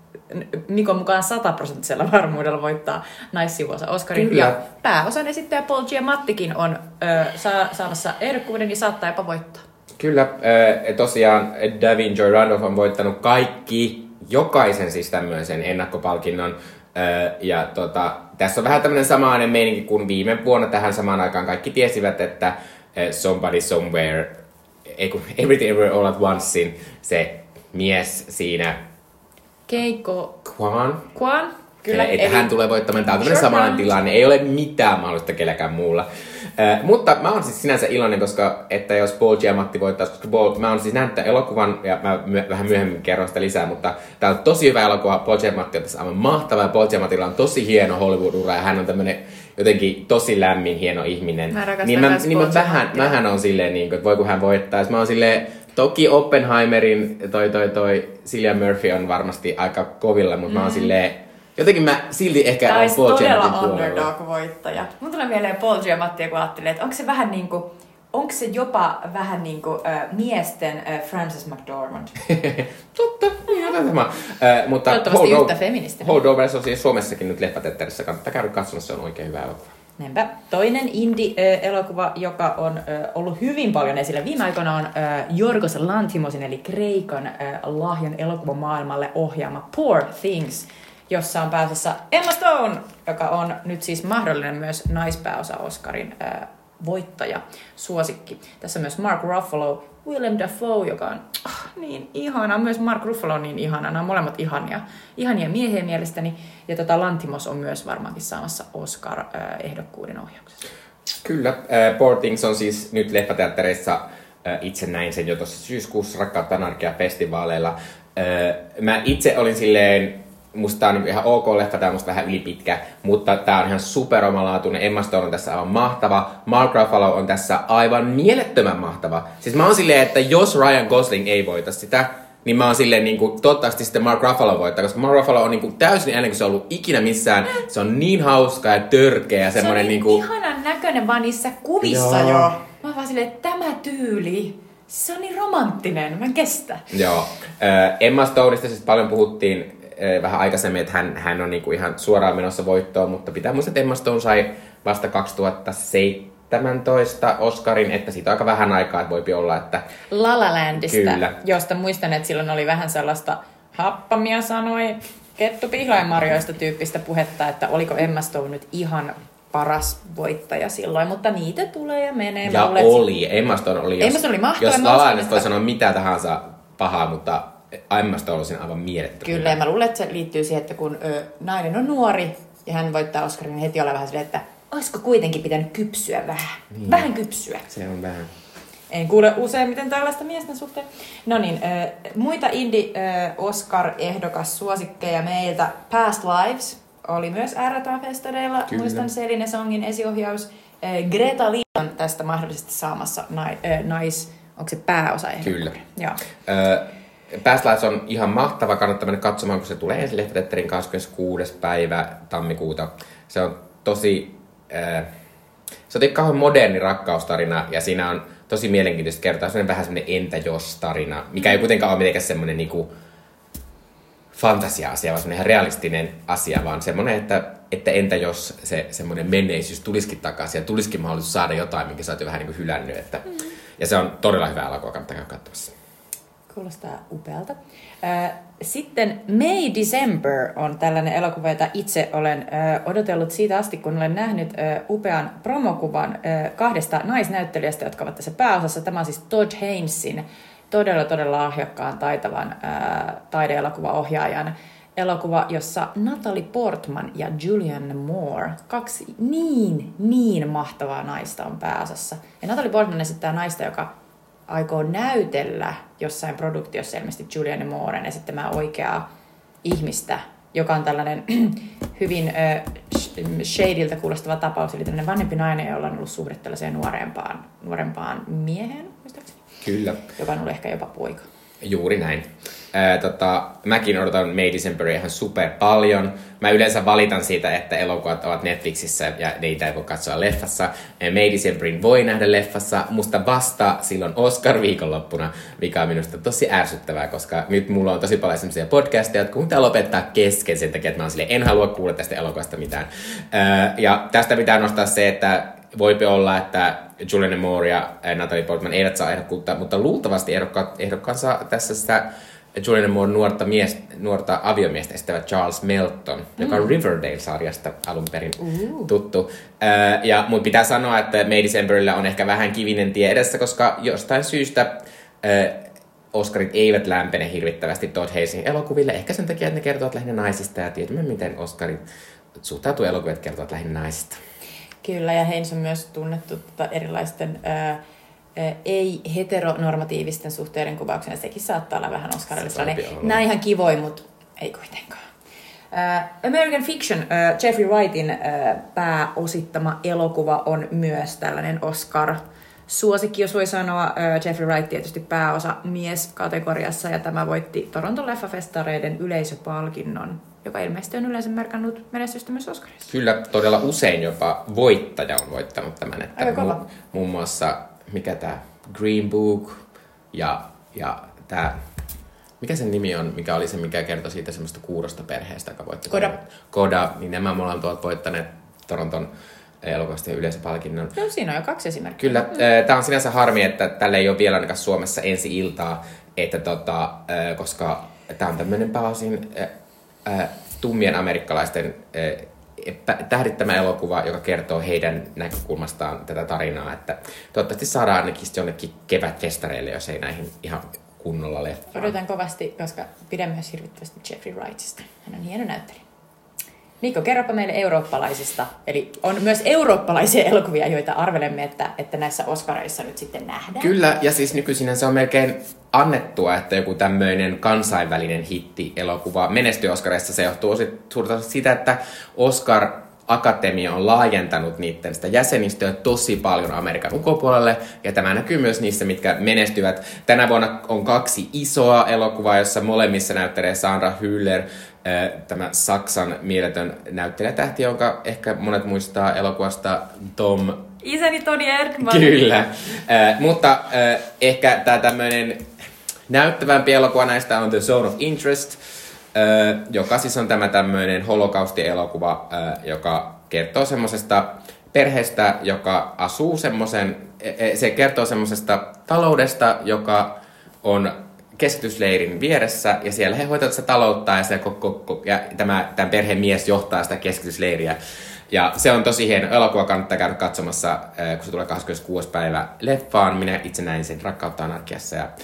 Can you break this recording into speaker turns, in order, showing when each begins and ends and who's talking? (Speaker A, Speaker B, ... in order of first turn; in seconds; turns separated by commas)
Speaker A: 0.3-9.6, Speaker B: 4.1-4.6, Speaker B: 10.0-28.8, Speaker A: 29.7-30.4, Speaker B: 30.4-31.1, Speaker A: 31.1-32.5, Speaker B: 31.9-64.1, Speaker A: 33.1-33.9, Speaker A: 51.5-53.2, Speaker A: 60.5-60.9, Speaker A: 62.6-72.2, Speaker B: 72.2-79.8, Speaker A: 74.9-76.2, Speaker A: 80.0-110.6, Speaker B: 111.2-140.2, Speaker A: 139.5-146.9, Speaker B: 141.8-142.5, Speaker B: 146.9-159.8, Speaker A: 160.1-173.0, Speaker B: 160.7-161.3, Speaker B: 172.4-179.6, Speaker A: 174.0-175.5, Speaker A: 179.2-187.7, Speaker B: 186.7-187.1, Speaker B: 187.7-188.3, Speaker A: 188.9-206.2, Speaker B: 198.7-199.0, Speaker B: 205.4-205.8, Speaker B: 206.4-215.1, Speaker B: 215.9-222.9, Speaker B: 224.3-235.7, Speaker A: 236.5-263.9, Speaker A: 264.5-269.0, Speaker A: 269.6-279.4, Speaker B: 279.6-280.0, Speaker A: 280.1-281.3, Speaker B: 281.6-331.8, Speaker A: 318.4-318.9, Speaker B: 332.4-334.2, Speaker A: 334.8-337.8, Speaker A: 338.4-345.1, Speaker B: 342.4-343.2, Speaker A: 345.7-362.9, Speaker B: 362.9-369.6, Speaker A: 366.2-366.6, Speaker B: 370.1-371.6, Speaker B: 372.4-379.1, Speaker A: 375.9-376.1, Speaker B: 379.6-380.9, Speaker A: 380.9-382.4, Speaker B: 382.0-389.5, Speaker B: 390.0-401.9, Speaker A: 401.7-405.8, Speaker A: 406.8-413.7, Speaker B: 413.6-440.6, Speaker A: 440.8-442.3, Speaker B: 441.8-445.5, Speaker B: 446.1-448.6, Speaker B: 449.1-467.8, Speaker B: 468.3-475.1